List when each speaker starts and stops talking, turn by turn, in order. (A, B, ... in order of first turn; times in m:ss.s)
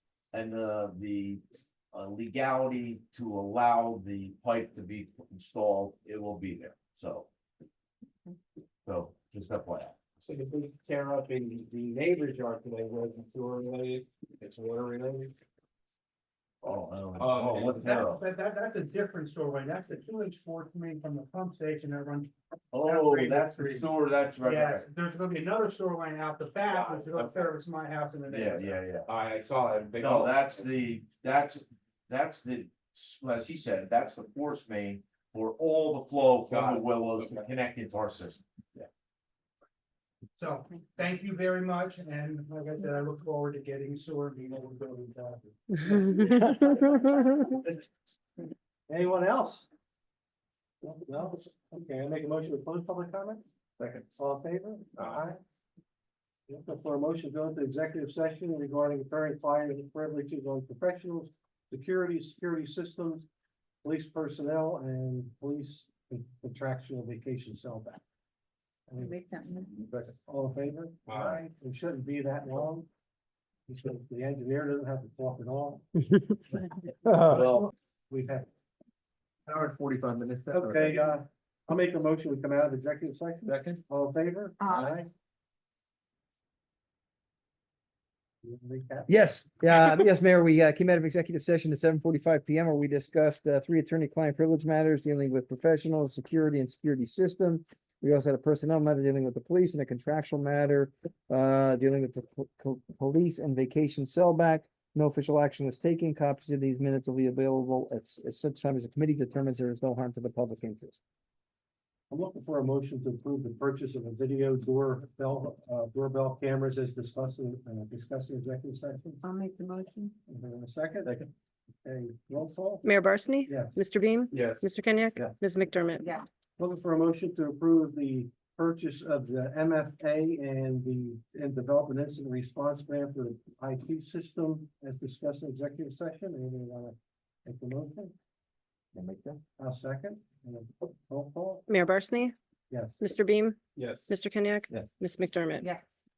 0:00.3-0:07.3 A
0:08.8-0:10.0 A
0:10.2-0:15.3 B
0:16.6-0:18.2 A
0:17.2-0:17.9 B
0:17.6-0:28.8 C
0:22.7-0:24.8 A
0:26.6-0:27.5 B
0:28.3-0:29.1 A
0:29.1-0:30.6 B
0:30.0-0:38.4 A
0:36.4-0:37.5 B
0:40.4-0:46.4 C
0:46.1-0:46.8 D
0:48.9-0:49.7 E
0:50.8-0:53.4 E
0:53.8-0:54.0 B
0:54.1-0:55.4 E
0:56.5-1:03.2 E
1:03.8-1:08.0 E
1:08.9-1:09.1 E
1:08.9-1:09.9 F
1:09.9-1:10.1 B
1:10.2-1:12.9 E
1:11.1-1:11.4 B
1:13.7-1:15.8 E
1:16.1-1:16.4 G
1:17.0-1:17.5 G
1:17.2-1:18.5 E
1:17.3-1:17.7 A
1:19.5-1:21.1 B
1:20.5-1:25.1 E
1:23.4-1:23.8 B
1:24.6-1:24.9 F
1:28.4-1:29.1 E
1:29.1-1:51.0 G
1:52.1-1:59.2 E
1:59.2-2:00.1 F
2:00.3-2:01.3 E
2:01.8-2:02.9 E
2:02.8-2:06.1 D
2:03.5-2:03.7 E
2:04.3-2:05.4 B
2:06.0-2:06.3 F
2:06.6-2:18.1 E
2:18.9-2:19.4 A
2:19.6-2:21.7 E
2:21.7-2:22.3 D
2:22.7-2:23.0 E
2:23.0-2:23.6 D
2:23.8-2:24.2 B
2:24.1-2:25.6 D
2:25.6-2:26.0 F